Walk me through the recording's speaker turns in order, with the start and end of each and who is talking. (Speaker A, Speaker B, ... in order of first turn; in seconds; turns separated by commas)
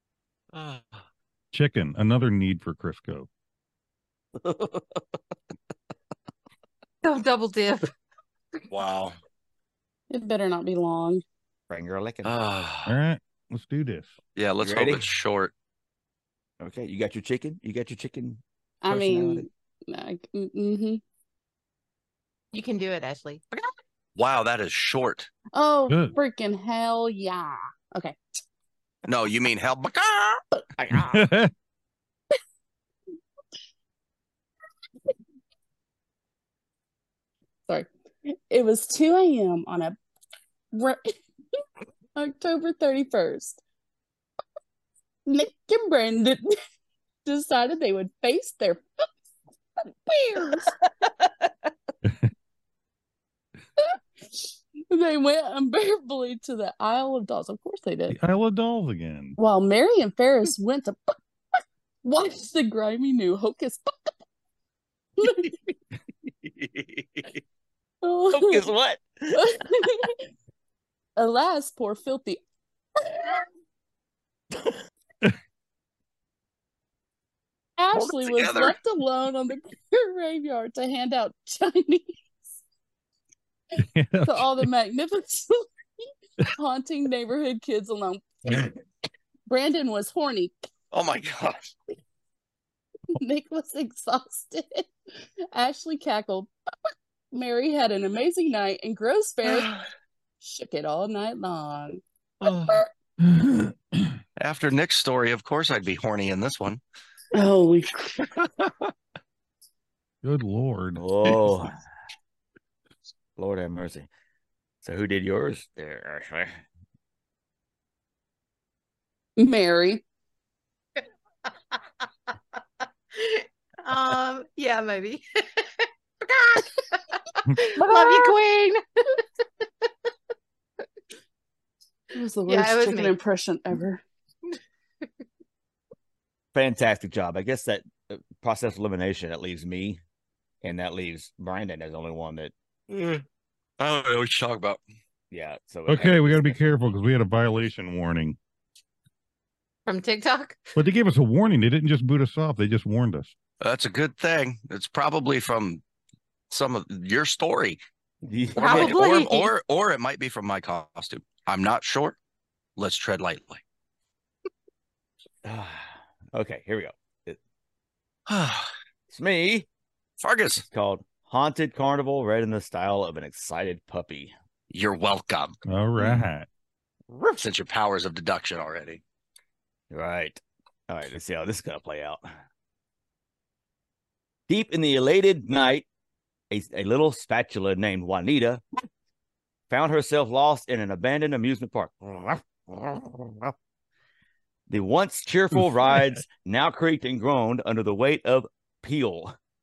Speaker A: 0.5-1.0, Speaker B: 1.5-3.3, Speaker C: 4.4-5.0, Speaker D: 7.0-7.9, Speaker A: 8.7-9.2, Speaker E: 10.1-11.2, Speaker C: 11.7-12.3, Speaker A: 12.2-12.9, Speaker B: 12.9-14.1, Speaker A: 14.4-15.5, Speaker C: 14.6-15.0, Speaker C: 16.6-19.5, Speaker E: 18.8-21.0, Speaker D: 22.5-23.7, Speaker A: 24.2-25.3, Speaker E: 25.5-28.2, Speaker B: 25.9-26.1, Speaker A: 29.1-30.4, Speaker C: 30.8-31.2, Speaker B: 31.1-31.5, Speaker E: 37.7-40.0, Speaker E: 40.7-41.1, Speaker E: 42.1-43.6, Speaker E: 45.3-46.4, Speaker E: 47.2-48.8, Speaker E: 50.1-50.7, Speaker C: 51.0-51.5, Speaker E: 53.8-58.2, Speaker B: 58.1-59.4, Speaker E: 59.4-61.1, Speaker E: 62.0-64.1, Speaker E: 65.2-65.6, Speaker A: 66.6-67.3, Speaker E: 68.0-68.7, Speaker C: 68.3-69.6, Speaker E: 69.3-70.2, Speaker E: 71.2-72.4, Speaker E: 73.0-73.4, Speaker E: 77.8-82.2, Speaker A: 77.9-78.8, Speaker B: 83.8-84.7, Speaker E: 84.2-85.7, Speaker E: 86.5-88.7, Speaker E: 89.5-90.7, Speaker A: 90.9-91.7, Speaker E: 93.1-94.9, Speaker E: 95.5-96.5, Speaker E: 97.3-99.7, Speaker A: 99.5-99.9, Speaker E: 100.4-102.9, Speaker A: 102.4-102.8, Speaker B: 103.2-104.2, Speaker A: 104.4-106.8, Speaker E: 107.3-108.3, Speaker A: 108.3-108.9, Speaker B: 110.2-111.0, Speaker C: 111.0-111.7, Speaker C: 113.4-114.1, Speaker C: 114.8-116.6, Speaker E: 119.4-120.0, Speaker D: 123.2-129.2, Speaker E: 127.7-128.3, Speaker E: 132.1-134.0, Speaker D: 132.5-133.2, Speaker C: 136.5-140.0, Speaker C: 140.6-142.5, Speaker A: 142.9-143.2, Speaker A: 143.8-144.8, Speaker C: 145.3-146.6, Speaker B: 145.9-148.4, Speaker D: 149.9-150.6, Speaker B: 150.8-153.3, Speaker A: 153.6-155.8, Speaker A: 156.5-157.8, Speaker C: 158.2-159.0, Speaker D: 158.6-159.5, Speaker A: 158.6-162.2, Speaker A: 162.8-163.6, Speaker C: 165.4-167.4, Speaker A: 168.3-168.7, Speaker C: 169.1-169.7, Speaker A: 170.2-170.7, Speaker C: 170.6-174.3, Speaker A: 174.7-175.6, Speaker B: 175.7-176.5, Speaker C: 176.0-176.3, Speaker A: 177.3-179.0, Speaker C: 179.9-182.3, Speaker C: 184.5-185.9, Speaker C: 186.5-188.6, Speaker C: 189.7-193.5, Speaker C: 194.7-199.3